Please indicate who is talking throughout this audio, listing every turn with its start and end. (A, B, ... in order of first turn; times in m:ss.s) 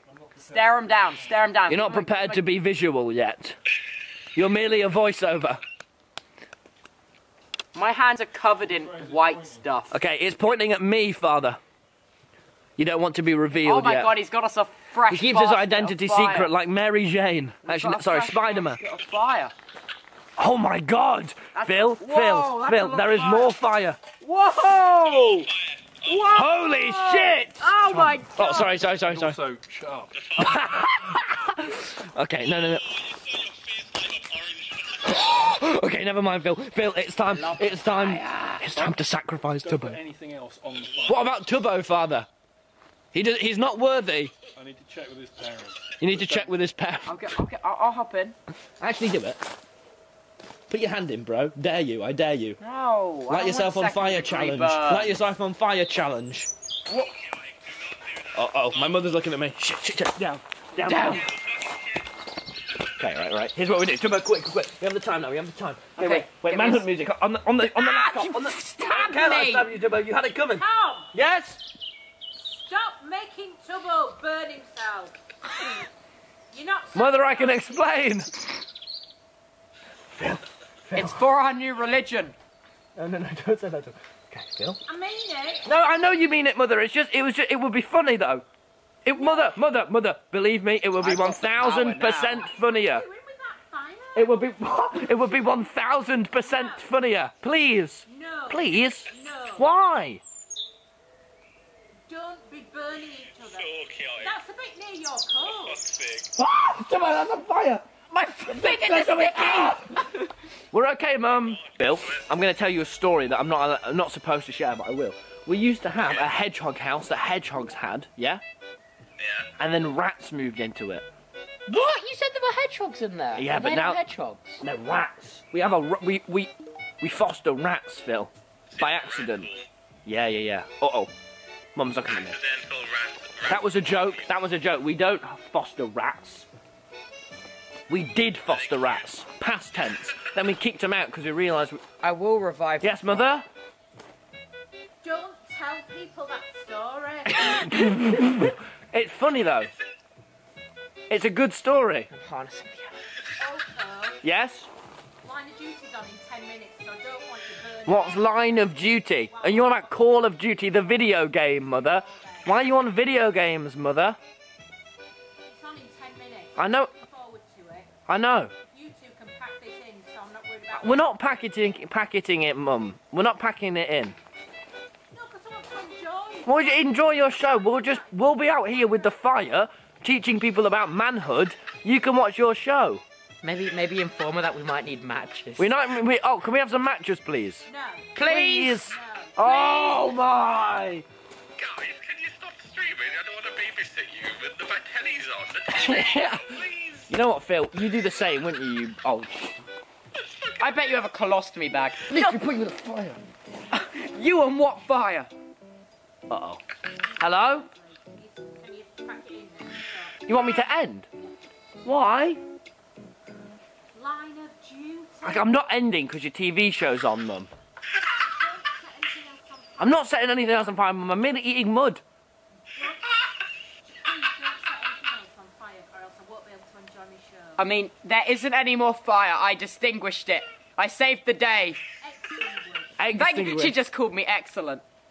0:00.2-0:01.0 A
0:00.4-0:02.4 B
0:01.7-0:03.6 C
0:04.3-0:05.6 C
0:07.8-0:10.0 B
0:09.0-0:09.4 A
0:09.9-0:11.6 C
0:12.8-0:14.2 C
0:13.6-0:16.5 B
0:15.1-0:18.8 C
0:17.6-0:19.5 B
0:20.4-0:24.0 C
0:21.5-0:23.6 B
0:24.2-0:25.5 B
0:26.0-0:28.8 B
0:26.3-0:29.4 C
0:29.0-0:30.4 A
0:30.3-0:33.0 C
0:35.0-0:40.0 C
0:37.3-0:38.9 B
0:39.6-0:41.3 A
0:41.0-0:42.3 C
0:43.1-0:44.3 C
0:44.6-0:46.5 A
0:46.0-0:47.3 C
0:47.1-0:48.4 B
0:48.8-0:49.4 C
0:50.7-0:52.6 C
0:52.6-0:55.2 B
0:53.3-0:56.5 C
0:56.9-0:57.2 B
0:58.3-1:01.4 C
1:00.8-1:01.3 B
1:02.8-1:11.6 C
1:06.0-1:06.9 B
1:07.6-1:09.7 B
1:10.5-1:11.1 D
1:12.4-1:15.2 D
1:16.5-1:17.9 D
1:16.9-1:18.4 C
1:20.1-1:21.2 C
1:21.0-1:22.4 B
1:23.0-1:24.8 C
1:24.9-1:25.7 D
1:25.6-1:28.4 C
1:29.0-1:33.1 C
1:29.1-1:29.6 D
1:31.0-1:32.5 B
1:32.4-1:34.3 D
1:34.2-1:40.2 C
1:36.3-1:36.9 D
1:38.1-1:39.7 D
1:42.1-1:45.9 D
1:43.8-1:44.2 E
1:45.9-1:46.2 E
1:46.3-1:50.1 C
1:48.4-1:49.8 B
1:50.7-1:58.4 C
1:59.5-2:01.0 C
2:01.7-2:04.6 B
2:03.3-2:04.1 C
2:04.6-2:09.5 C
2:10.1-2:11.1 C
2:11.8-2:12.4 C
2:12.5-2:13.4 E
2:13.4-2:16.5 C
2:17.9-2:21.9 C
2:22.0-2:23.2 B
2:22.8-2:23.5 C
2:25.0-2:28.0 D
2:27.3-2:29.7 C
2:31.1-2:32.1 C
2:32.1-2:33.0 B
2:33.4-2:34.2 D
2:34.2-2:34.7 C
2:35.2-2:40.9 D
2:37.8-2:44.2 C
2:41.6-2:42.7 D
2:45.4-2:47.9 D
2:46.6-2:46.9 C
2:48.1-2:48.5 C
2:48.7-2:51.3 D
2:50.7-2:54.2 C
2:55.1-2:59.5 D
2:56.5-3:03.0 C
3:03.4-3:05.7 B
3:05.6-3:07.7 C
3:07.7-3:10.2 D
3:08.2-3:08.8 B
3:08.3-3:11.0 C
3:11.6-3:15.7 E
3:15.7-3:19.6 C
3:20.6-3:22.4 B
3:22.1-3:23.2 C
3:23.7-3:25.3 B
3:26.3-3:26.6 C
3:27.2-3:27.7 C
3:27.2-3:30.7 D
3:30.3-3:31.1 C
3:31.8-3:32.4 C
3:33.9-3:35.6 D
3:35.2-3:37.5 C
3:38.1-3:40.2 D
3:39.8-3:42.0 C
3:42.7-3:47.6 D
3:47.6-3:51.8 B
3:52.0-3:53.0 D
3:53.0-3:53.8 C
3:53.1-3:54.8 B